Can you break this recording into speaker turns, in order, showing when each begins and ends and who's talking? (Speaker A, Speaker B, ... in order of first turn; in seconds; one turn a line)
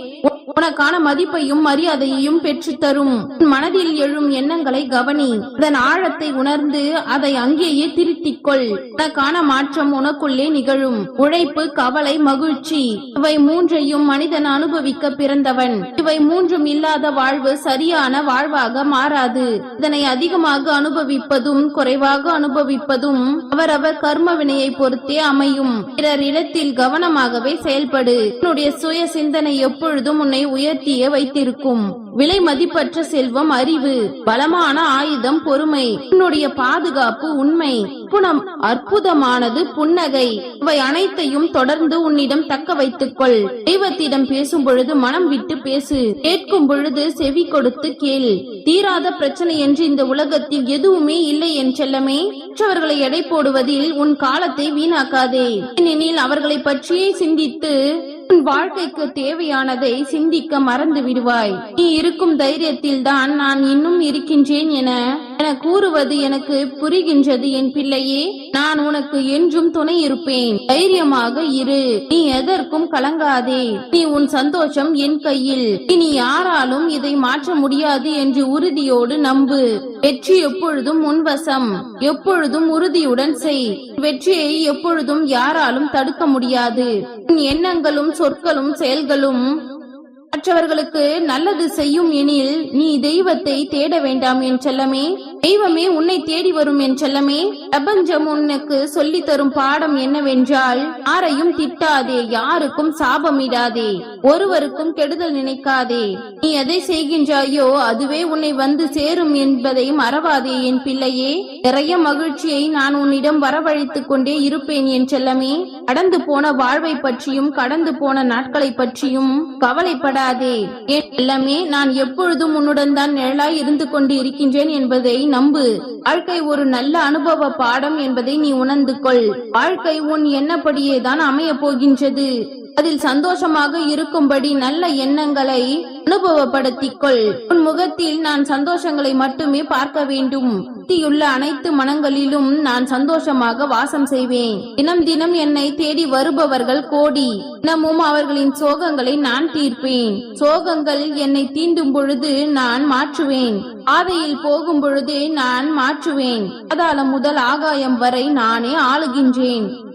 Speaker A: 0.5-57.7
Speaker A: 58.3-89.4
Speaker A: 90.3-159.7